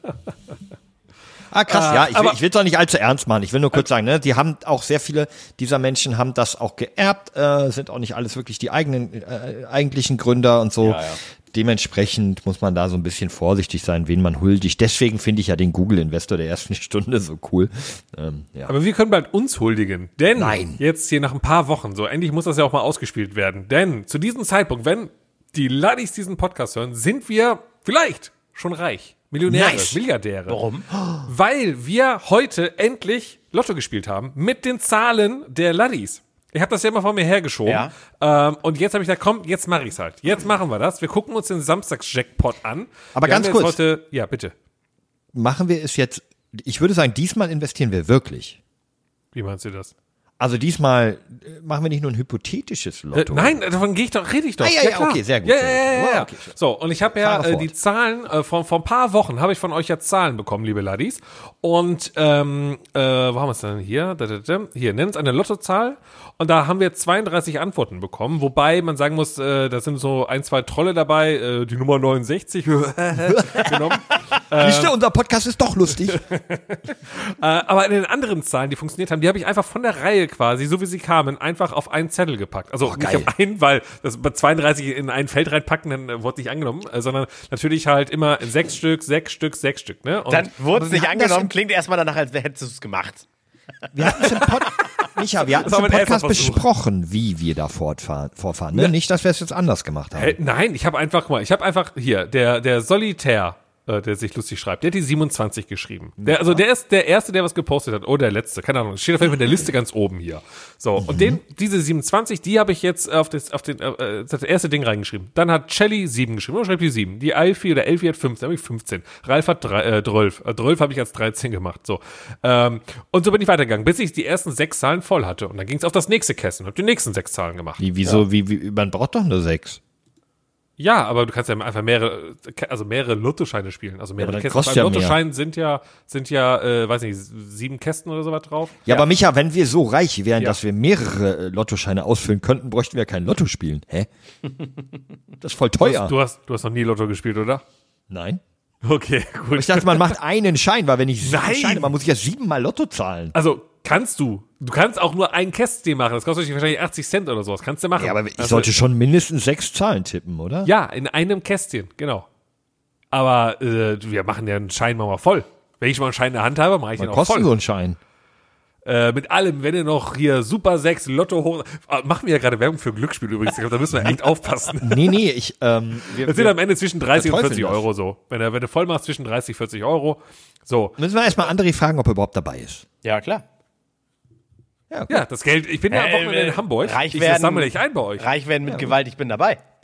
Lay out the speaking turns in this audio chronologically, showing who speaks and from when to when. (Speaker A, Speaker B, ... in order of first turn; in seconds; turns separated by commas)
Speaker A: 1.5-18.7, Speaker B: 1.7-2.4, Speaker C: 10.8-11.2, Speaker B: 18.7-30.6, Speaker A: 20.4-20.8, Speaker A: 29.4-30.0, Speaker C: 30.5-30.9, Speaker B: 31.2-44.5, Speaker C: 37.6-37.9, Speaker A: 43.1-43.8, Speaker A: 45.3-48.6, Speaker B: 49.3-49.9, Speaker A: 50.4-53.6, Speaker B: 53.1-74.9, Speaker A: 54.6-56.5, Speaker A: 57.0-57.7, Speaker A: 72.7-76.2, Speaker B: 76.1-90.5, Speaker A: 82.8-83.3, Speaker C: 90.3-93.2, Speaker A: 90.7-91.5, Speaker A: 93.9-100.4, Speaker C: 94.1-94.6, Speaker B: 95.5-96.7, Speaker B: 100.1-127.8, Speaker A: 106.2-106.6, Speaker A: 111.0-111.4, Speaker A: 127.8-129.8, Speaker B: 130.8-139.0, Speaker A: 134.2-135.2, Speaker A: 138.8-144.1, Speaker A: 145.4-146.1, Speaker B: 145.8-147.6, Speaker A: 148.1-148.4, Speaker B: 148.8-150.2, Speaker A: 149.5-153.3, Speaker B: 151.2-151.9, Speaker B: 153.3-158.7, Speaker A: 157.9-160.7, Speaker B: 160.6-162.2, Speaker B: 163.1-167.5, Speaker A: 167.0-168.0, Speaker B: 168.8-175.2, Speaker A: 174.8-176.6, Speaker B: 176.2-181.0, Speaker A: 177.1-177.9, Speaker A: 181.0-182.8, Speaker C: 183.0-183.4, Speaker A: 184.9-185.2, Speaker B: 185.1-188.3, Speaker C: 185.9-189.6, Speaker A: 188.7-188.9